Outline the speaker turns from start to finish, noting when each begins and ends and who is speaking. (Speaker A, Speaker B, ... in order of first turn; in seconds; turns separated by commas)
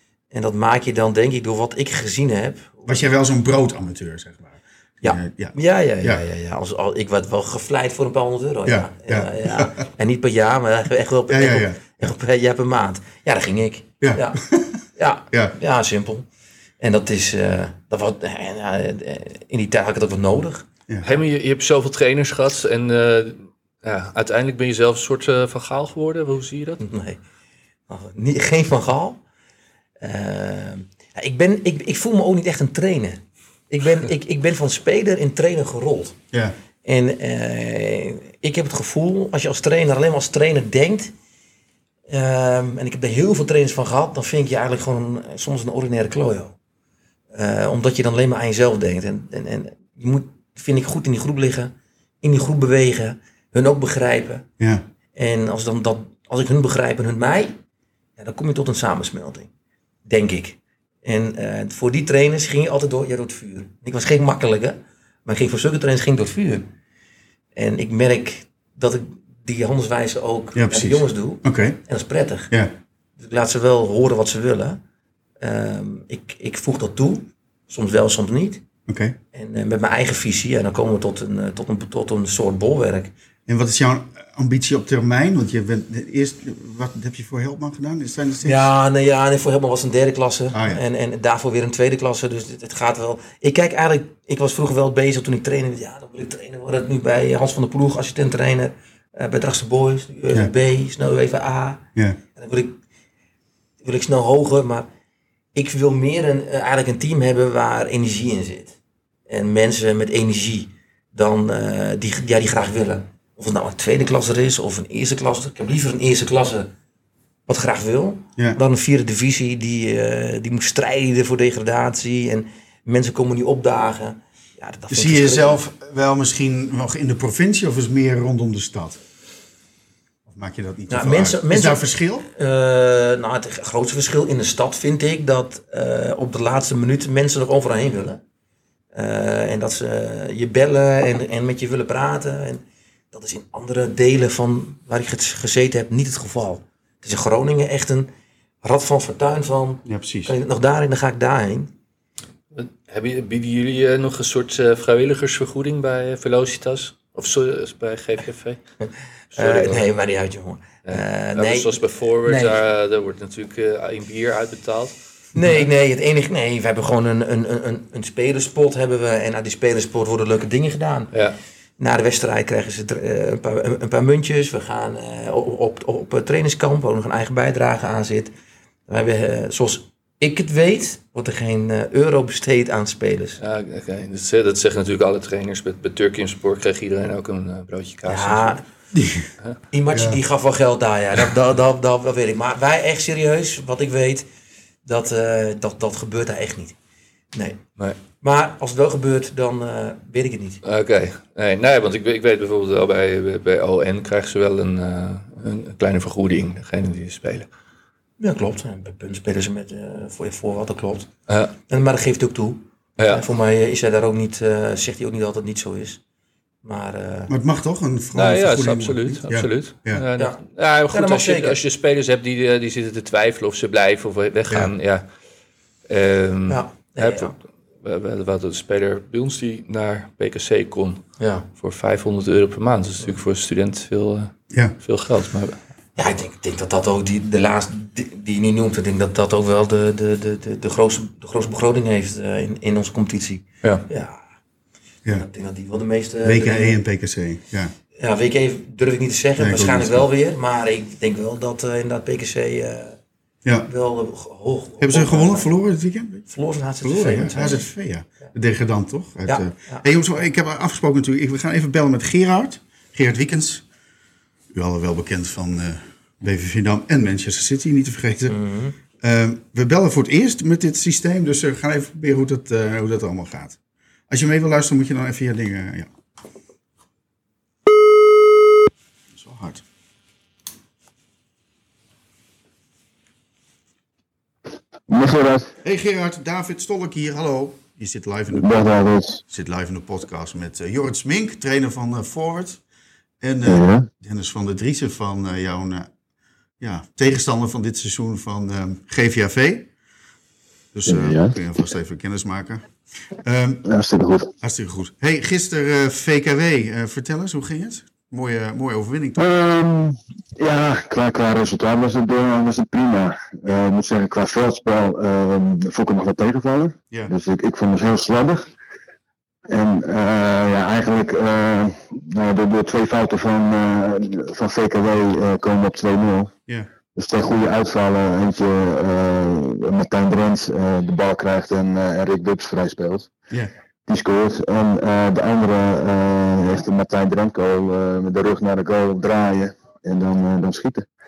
Speaker A: 0.3-3.1, Speaker B: 2.9-6.2, Speaker A: 5.0-14.4, Speaker B: 8.7-9.8, Speaker B: 11.3-12.1, Speaker B: 14.0-14.8, Speaker A: 14.9-16.2, Speaker A: 16.8-20.6, Speaker C: 21.0-26.8, Speaker A: 26.8-27.2, Speaker A: 27.9-29.2, Speaker A: 30.0-36.2, Speaker A: 36.8-41.1, Speaker A: 42.1-46.5, Speaker A: 47.3-54.4, Speaker A: 55.1-57.6, Speaker A: 58.2-59.5, Speaker A: 60.1-66.7, Speaker A: 67.5-72.5, Speaker B: 70.5-71.8, Speaker A: 73.2-74.8, Speaker A: 75.4-78.6, Speaker B: 78.9-79.2, Speaker A: 79.3-83.1, Speaker B: 83.5-88.7, Speaker A: 88.4-102.8, Speaker B: 90.5-90.8, Speaker A: 103.8-104.9, Speaker A: 105.5-108.8, Speaker A: 109.3-116.7, Speaker A: 117.5-125.6, Speaker B: 124.9-129.0, Speaker B: 130.3-132.3, Speaker A: 130.9-138.2, Speaker A: 138.9-148.1, Speaker A: 148.6-151.7, Speaker B: 149.9-150.3, Speaker C: 152.5-158.6, Speaker C: 159.3-159.8, Speaker A: 159.3-162.6, Speaker C: 160.9-165.6, Speaker A: 165.3-171.1, Speaker A: 171.8-178.3, Speaker A: 178.9-183.4, Speaker C: 183.4-188.6, Speaker A: 188.1-188.6, Speaker B: 188.9-189.3, Speaker A: 189.7-194.2, Speaker B: 189.9-190.2, Speaker A: 194.8-196.7, Speaker A: 197.3-197.6, Speaker A: 198.2-200.6, Speaker C: 200.6-207.5, Speaker A: 208.2-211.1, Speaker C: 211.3-211.5, Speaker A: 211.7-216.0, Speaker C: 213.0-213.2, Speaker A: 216.6-217.3, Speaker B: 217.3-220.1, Speaker C: 218.1-225.1, Speaker A: 220.9-221.6, Speaker C: 225.9-235.6, Speaker A: 226.5-227.3, Speaker A: 231.2-231.5, Speaker B: 234.5-234.8, Speaker A: 235.9-244.2, Speaker A: 245.1-246.8, Speaker B: 246.2-247.7, Speaker A: 247.9-253.0, Speaker B: 249.4-250.1, Speaker A: 253.7-255.5, Speaker B: 254.8-256.2, Speaker A: 256.3-257.6, Speaker B: 256.8-263.6, Speaker A: 259.2-259.9, Speaker B: 264.5-268.4, Speaker A: 268.3-268.8, Speaker B: 269.0-273.6, Speaker B: 274.1-275.9, Speaker B: 279.1-279.6, Speaker D: 284.9-285.5, Speaker B: 285.6-292.6, Speaker D: 288.3-289.2, Speaker B: 293.2-295.9, Speaker D: 293.4-293.9, Speaker B: 296.6-299.7, Speaker B: 300.7-302.6, Speaker D: 300.9-301.3, Speaker B: 303.2-303.6, Speaker D: 303.6-304.3, Speaker B: 304.4-309.2, Speaker D: 309.2-318.4, Speaker D: 319.5-326.3, Speaker D: 326.9-333.1, Speaker D: 333.9-340.9